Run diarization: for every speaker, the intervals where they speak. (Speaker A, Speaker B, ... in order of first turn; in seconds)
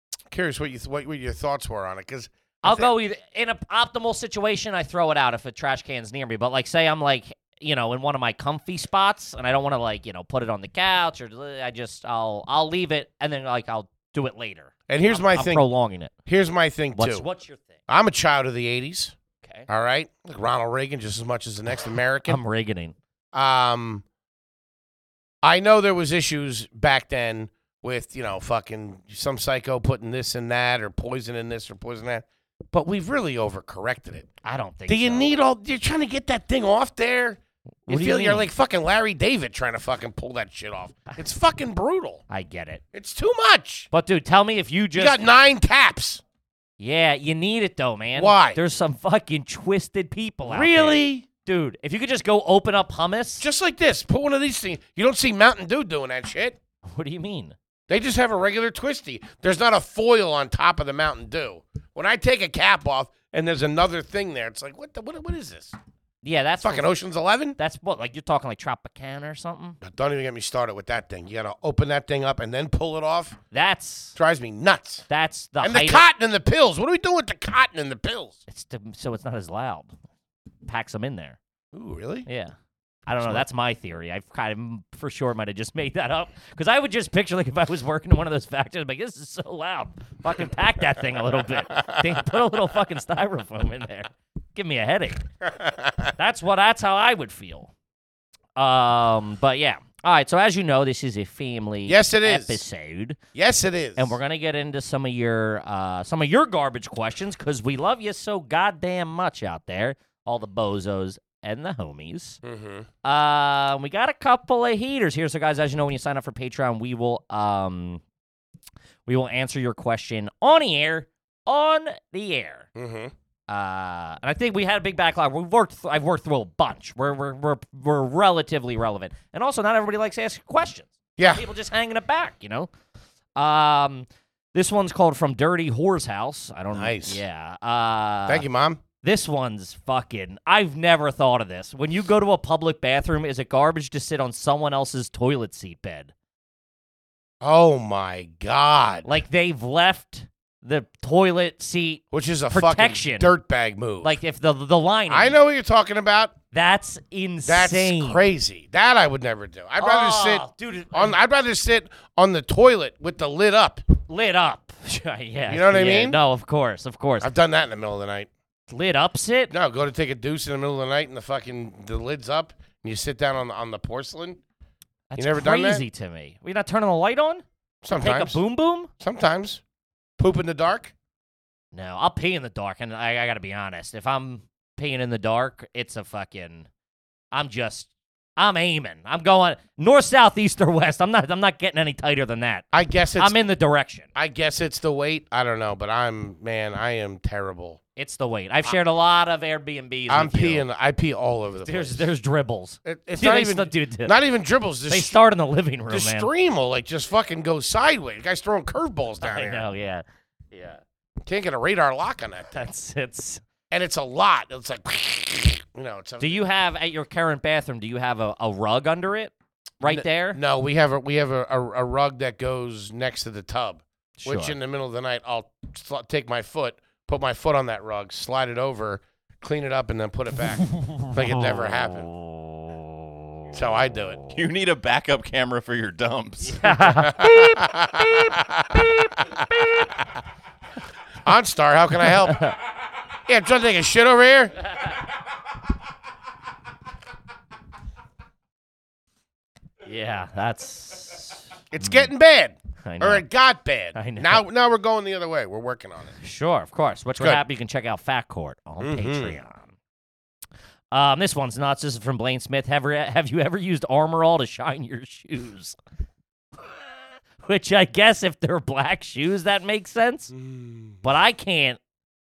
Speaker A: 0.3-2.9, 14.9-15.7, 16.3-17.3, 17.9-19.1, 19.7-22.4, 23.3-24.0, 25.4-34.3, 34.9-42.2, 42.9-43.9, 45.0-46.2, 48.1-48.6, 50.5-51.3, 53.4-56.6, 57.9-65.8, 66.6-67.6, 69.8-73.4, 74.2-75.0, 75.6-78.4, 81.7-82.3, 95.6-95.9, 101.9-102.6, 103.3-104.2, 112.4-112.9, 122.8-123.1, 131.2-131.4, 136.7-137.2, 138.3-138.8, 147.4-149.1, 152.1-154.2, 155.1-156.3, 157.5-163.8, 165.5-166.2, 167.2-168.3, 169.5-174.4, 175.2-175.8, 177.8-178.4, 179.0-179.6, 180.2-180.9, 192.7-193.3, 194.2-197.8, 200.1-202.1, 202.8-205.2, 205.9-209.7, 211.3-212.7, 213.7-216.4, 219.9-232.1, 233.5-234.2, 236.8-239.9, 241.2-242.6, 243.3-244.6, 251.7-256.2, 258.8-259.4, 270.3-271.0
Speaker B: 2.6-16.1, 17.0-17.7, 19.4-19.7, 22.3-22.9, 34.4-35.3, 37.9-38.5, 42.3-42.8, 43.9-45.2, 46.8-53.4, 56.9-57.5, 66.2-66.9, 67.6-69.8, 73.5-74.2, 75.1-76.0, 78.5-79.9, 80.7-81.4, 82.3-82.5, 83.1-95.2, 96.2-97.7, 98.6-103.2, 104.0-112.4, 113.0-118.0, 119.1-122.7, 123.5-132.7, 133.4-138.4, 139.0-146.1, 149.1-153.3, 154.0-155.4, 156.5-158.3, 159.8-161.2, 164.1-167.3, 168.7-169.5, 175.1-178.9, 181.7-186.7, 187.3-192.7, 193.2-194.1, 198.0-200.7, 201.7-204.2, 204.9-206.3, 209.2-210.8, 212.6-213.4, 216.2-220.4, 224.2-224.6, 230.7-233.6, 236.5-239.9, 242.3-242.5, 249.8-252.1, 252.8-253.2, 254.0-254.4, 256.2-259.7, 260.9-265.8, 267.4-270.3, 271.0-271.8
Speaker C: 234.3-236.7